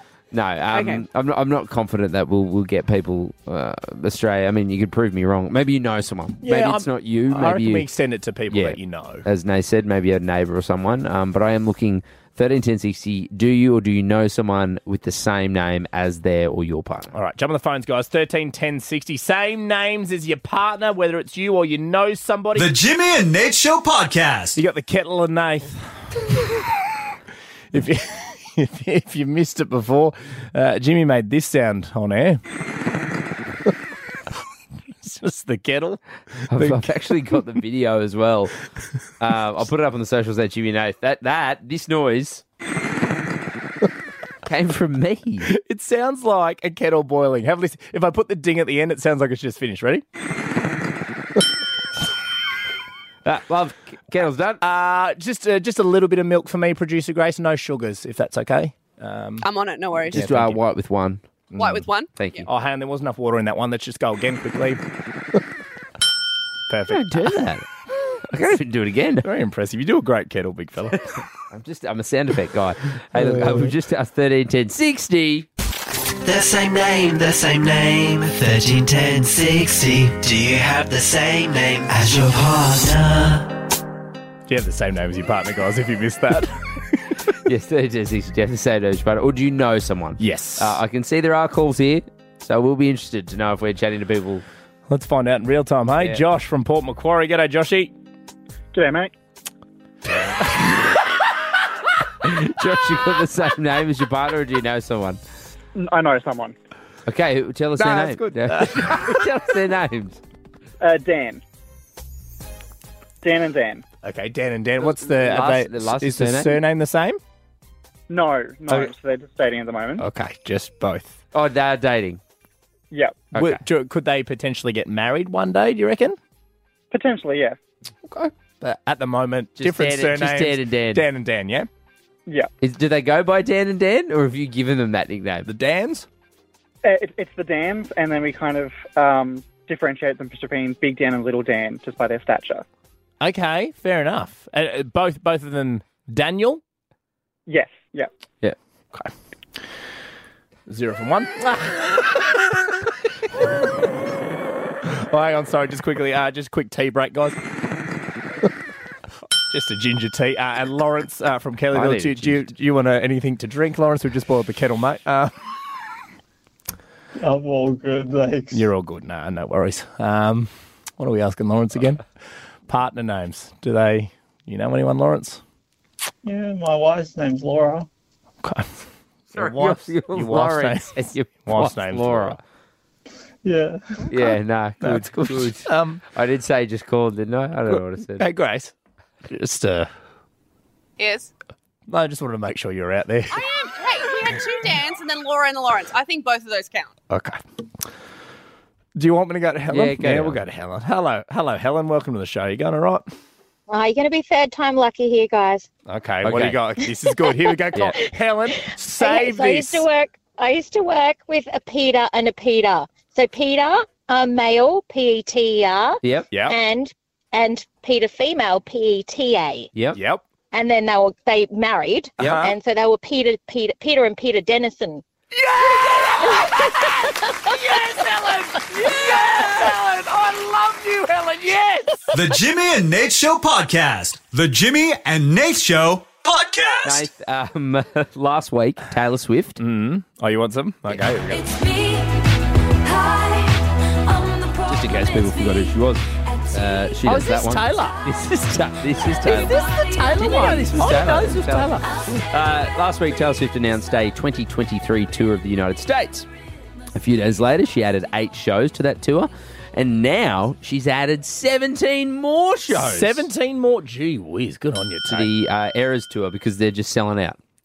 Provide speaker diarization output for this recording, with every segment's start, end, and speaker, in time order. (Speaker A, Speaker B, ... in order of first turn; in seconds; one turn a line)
Speaker A: 0.3-7.9
Speaker B: 0.7-1.0
Speaker C: 6.4-9.2
Speaker A: 8.5-17.1
Speaker C: 17.1-22.7
Speaker D: 22.6-24.6
Speaker C: 24.6-26.8
Speaker C: 27.7-32.4
Speaker C: 35.0-36.9
Speaker A: 36.5-38.6
Speaker A: 39.2-42.4
Speaker A: 44.5-45.5
Speaker C: 45.5-50.0
Speaker A: 53.2-54.6
Speaker C: 54.6-59.5
Speaker B: 59.4-60.3
Speaker C: 60.1-60.6
Speaker A: 60.1-61.2
Speaker C: 61.5-61.9
Speaker B: 61.5-62.4
Speaker A: 62.2-62.5
Speaker C: 62.5-64.8
Speaker C: 66.7-67.1
Speaker A: 66.9-67.7
Speaker A: 68.2-69.3
Speaker C: 69.2-71.0
Speaker A: 71.4-75.5
Speaker C: 73.1-73.7
Speaker E: 76.2-83.5
Speaker C: 84.5-86.8
Speaker A: 87.5-94.5
Speaker C: 90.2-90.8
Speaker C: 94.9-97.9
Speaker F: 98.7-99.1
Speaker A: 102.2-105.2
Speaker F: 105.8-106.5
Speaker A: 107.1-110.2
Speaker C: 107.8-109.3
Speaker F: 110.8-111.4
Speaker F: 113.2-113.8
Speaker C: 114.0-117.2
Speaker A: 114.8-116.6
Speaker F: 118.1-120.0
Speaker C: 120.0-121.2
Speaker A: 121.3-122.2
Speaker F: 122.9-123.3
Speaker C: 123.3-126.2
Speaker A: 123.3-123.6
Speaker F: 126.9-127.6
Speaker C: 128.1-131.7
Speaker A: 129.6-131.1
Speaker A: 132.6-135.5
Speaker C: 135.4-136.1
Speaker F: 136.8-142.7
Speaker C: 143.2-146.6
Speaker F: 147.5-148.1
Speaker C: 150.7-152.8
Speaker C: 154.8-157.4
Speaker C: 159.5-165.3
Speaker A: 161.7-162.4
Speaker G: 167.2-168.7
Speaker C: 168.5-172.1
Speaker C: 172.7-175.4
Speaker G: 176.2-177.9
Speaker C: 178.4-178.8
Speaker C: 179.3-182.4
Speaker A: 179.3-182.4
Speaker G: 183.4-183.8
Speaker A: 184.1-188.3
Speaker C: 184.8-186.0
Speaker C: 187.7-189.9
Speaker B: 191.0-191.3
Speaker C: 191.9-193.5
Speaker B: 193.3-196.9
Speaker C: 197.1-197.4
Speaker C: 198.9-203.1
Speaker A: 199.7-200.4
Speaker H: 203.7-205.7
Speaker C: 205.9-209.9
Speaker A: 206.2-206.6
Speaker H: 207.1-207.3
Speaker H: 208.6-219.7
Speaker A: 216.0-216.3
Speaker C: 216.3-216.6
Speaker C: 219.9-220.2
Speaker H: 220.5-225.0
Speaker C: 222.2-222.5
Speaker A: 222.2-222.5
Speaker C: 225.3-232.1
Speaker H: 226.2-227.5
Speaker A: 229.0-229.5
Speaker D: 232.1-237.1
Speaker A: 236.8-239.6
Speaker C: 239.6-241.6
Speaker A: 244.7-256.3
Speaker C: 247.0-248.1
Speaker C: 249.2-251.9
Speaker B: 250.2-250.6
Speaker A: 256.9-263.3
Speaker C: 262.7-265.3
Speaker A: 265.1-267.4